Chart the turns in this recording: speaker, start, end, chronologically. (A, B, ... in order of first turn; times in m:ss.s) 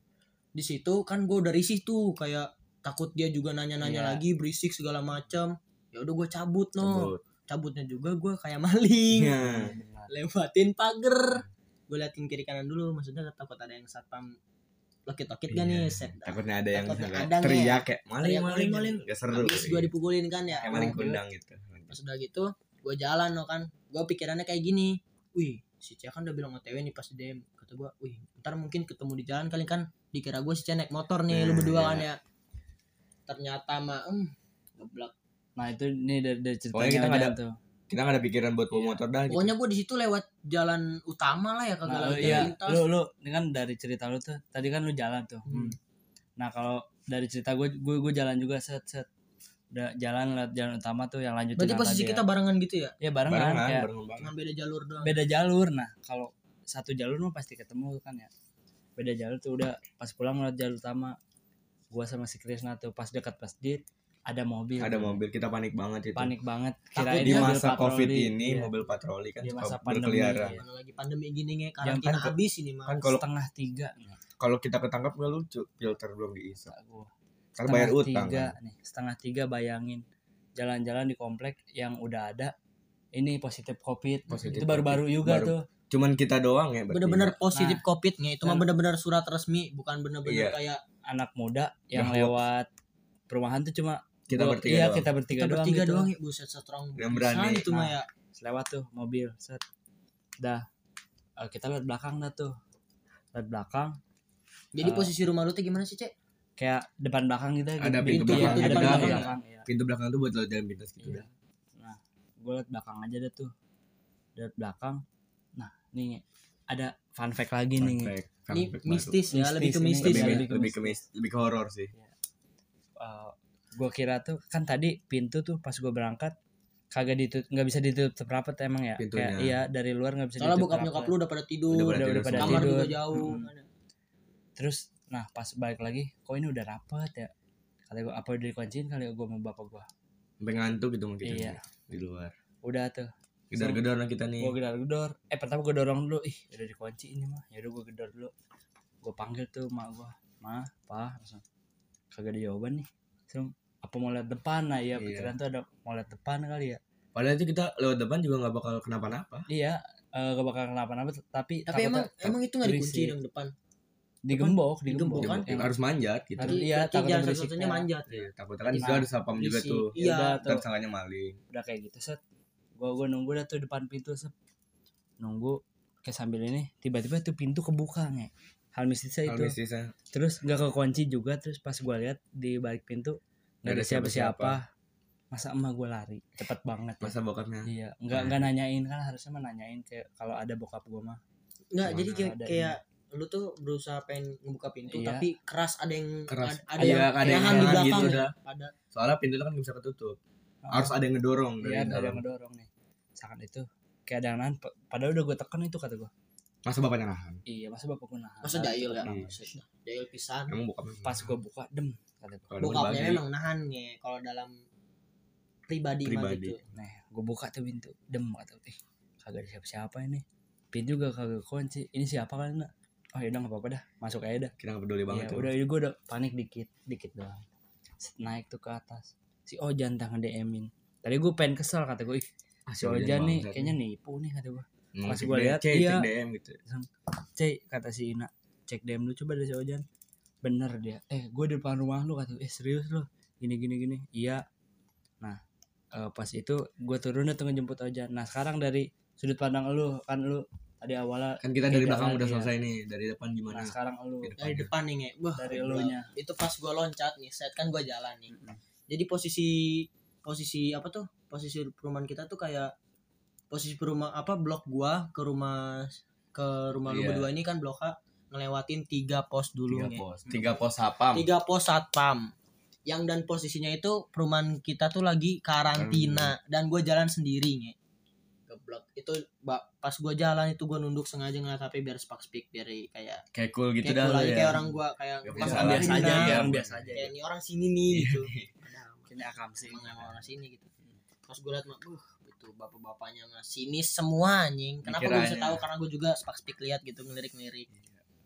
0:00.5-0:09.4 A
0:03.8-0:04.2 B
0:06.8-0:07.2 C
0:09.1-0:09.7 C
0:09.4-0:10.1 B
0:10.1-0:14.3 A
0:15.0-0:21.1 A
0:15.5-0:19.9 C
0:20.5-0:21.2 B
0:20.6-0:21.9 C
0:21.9-0:32.2 A
0:31.3-0:32.1 C
0:33.3-0:35.1 A
0:35.6-0:37.5 B
0:36.7-0:37.3 C
0:37.9-0:39.5 C
0:38.7-0:39.0 B
0:39.3-0:42.8 A
0:41.8-0:45.7 B
0:42.2-0:42.5 C
0:45.5-0:45.7 A
0:46.4-0:49.1 B
0:49.7-0:52.2 B
0:51.6-0:53.0 A
0:53.0-0:53.9 B
0:53.3-0:54.3 C
0:54.2-0:55.1 A
0:55.0-0:58.3 B
0:59.0-1:01.2 B
1:01.9-1:05.2 B
1:04.8-1:06.3 C
1:06.1-1:08.7 B
1:07.0-1:07.5 A
1:07.2-1:10.6 C
1:09.4-1:10.6 B
1:10.4-1:13.0 A
1:11.8-1:12.4 B
1:12.9-1:13.2 C
1:12.9-1:14.2 B
1:14.4-1:16.7 C
1:16.6-1:17.1 B
1:17.6-1:18.5 C
1:17.6-1:20.0 B
1:20.6-1:22.5 B
1:23.1-1:25.6 B
1:24.3-1:27.4 C
1:26.9-1:30.8 A
1:27.5-1:27.8 B
1:30.2-1:30.6 C
1:31.1-1:32.7 B
1:31.9-1:32.4 C
1:33.3-1:36.1 B
1:34.3-1:35.1 C
1:35.4-1:38.1 A
1:37.0-1:37.7 C
1:37.7-1:39.6 B
1:41.4-1:42.5 B
1:43.3-1:44.0 B
1:44.7-1:46.1 A
1:44.8-1:45.1 B
1:46.6-1:49.7 B
1:47.8-1:51.2 C
1:48.1-1:49.3 A
1:51.0-1:53.5 B
1:54.4-1:55.0 B
1:55.6-1:58.1 B
1:57.8-1:59.2 C
1:58.5-2:00.4 A
1:59.3-2:01.0 B
2:00.0-2:01.9 C
2:03.0-2:06.3 B
2:06.9-2:11.1 B
2:09.0-2:09.5 C
2:10.4-2:13.7 A
2:11.7-2:12.7 C
2:11.9-2:13.5 B
2:14.6-2:17.3 B
2:17.9-2:19.9 B
2:20.4-2:22.3 C
2:21.2-2:21.6 B
2:22.6-2:23.8 B
2:23.5-2:24.5 C
2:24.4-2:28.3 B
2:29.0-2:31.4 B
2:32.1-2:36.8 B
2:35.0-2:35.3 C
2:37.1-2:39.5 C
2:39.5-2:43.1 B
2:41.7-2:43.5 A
2:44.2-2:45.7 B
2:44.3-2:45.5 A
2:45.2-2:46.6 C
2:46.4-2:47.9 B
2:46.4-2:50.4 A
2:48.1-2:51.4 C
2:48.7-2:49.1 B
2:50.0-2:50.6 B
2:51.5-2:52.2 B
2:52.8-2:54.3 B
2:55.2-2:59.5 B
2:59.2-2:59.9 C
3:00.1-3:04.6 B
3:03.6-3:04.6 C
3:05.3-3:11.2 B
3:07.0-3:08.5 C
3:11.7-3:18.7 A
3:11.8-3:12.2 C
3:12.1-3:12.7 B
3:14.9-3:15.3 B
3:16.3-3:18.3 C
3:16.8-3:18.2 B
3:18.9-3:20.2 C
3:20.6-3:20.9 B
3:20.7-3:22.2 C
3:21.6-3:26.1 B
3:26.6-3:27.4 C
3:27.5-3:29.4 B
3:28.4-3:30.5 A
3:29.0-3:29.3 C
3:30.5-3:31.4 C
3:31.0-3:32.5 B
3:32.5-3:33.2 C
3:32.6-3:34.5 A
3:35.7-3:36.6 A
3:36.0-3:36.6 C
3:36.7-3:44.5 B
3:44.6-3:45.5 C
3:45.1-3:47.4 B
3:48.0-3:52.3 B
3:52.7-3:53.8 C
3:52.8-3:56.1 B
3:54.9-3:56.6 C
3:56.6-3:59.8 B
4:00.4-4:04.4 B
4:05.9-4:12.5 B
4:11.4-4:14.7 C
4:13.5-4:14.3 B
4:14.4-4:18.3 A
4:15.4-4:16.1 B
4:18.3-4:18.6 B
4:18.9-4:22.7 A
4:23.5-4:30.6 A
4:26.8-4:27.3 C
4:29.7-4:31.3 C
4:31.1-4:32.3 A
4:32.9-4:37.7 A
4:35.7-4:36.3 C
4:38.5-4:43.2 A
4:43.3-4:44.7 C
4:43.8-4:46.4 A
4:45.2-4:47.0 C
4:45.4-4:47.1 B
4:46.9-4:49.1 A
4:47.9-4:48.5 C
4:49.1-4:50.1 B
4:49.6-4:50.7 A
4:51.3-4:57.7 A
4:54.8-4:55.6 C
4:57.7-4:58.0 C